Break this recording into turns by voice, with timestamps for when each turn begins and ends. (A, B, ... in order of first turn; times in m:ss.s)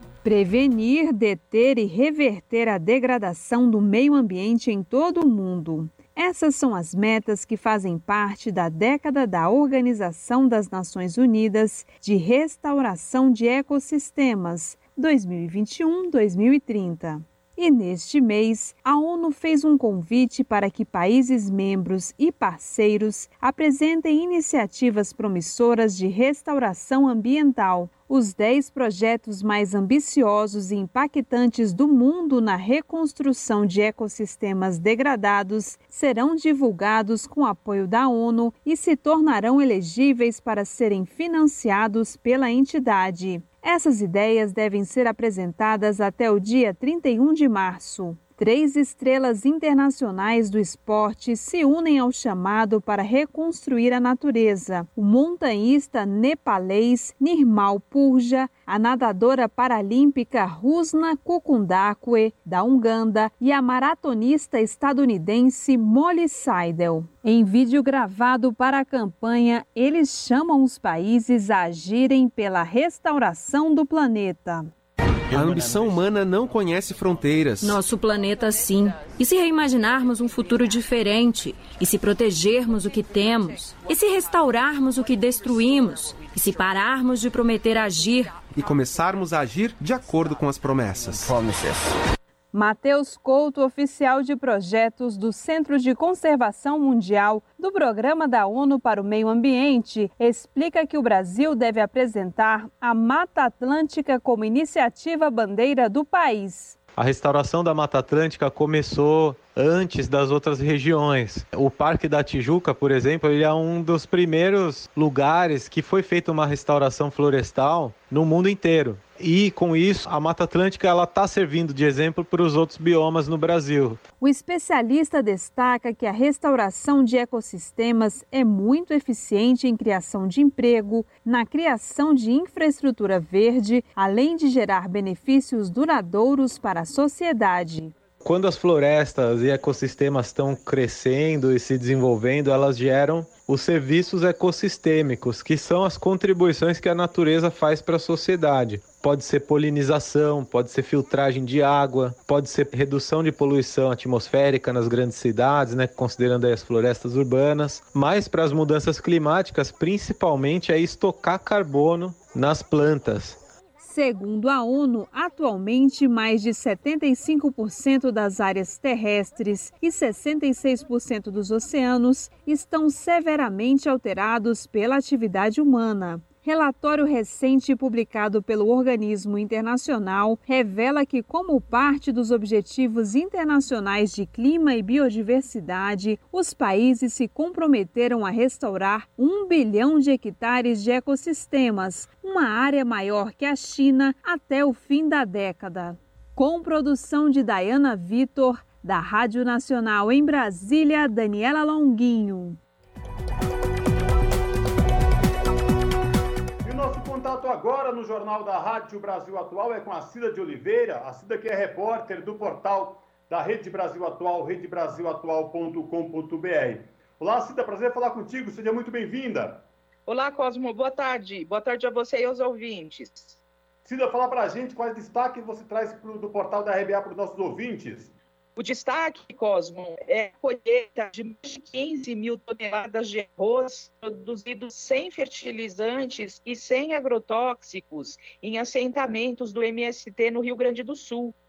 0:00.2-1:14.7 A
1:15.3-1:17.8 B
1:17.6-1:28.4 C
1:28.4-1:31.4 B
1:32.5-1:46.8 A
1:47.0-2:04.0 D
2:04.2-2:17.9 A
2:18.2-2:43.4 D
2:43.8-3:22.6 A
3:26.6-3:39.7 E
3:40.1-3:43.4 F
3:43.8-3:48.1 E
3:48.6-4:01.3 F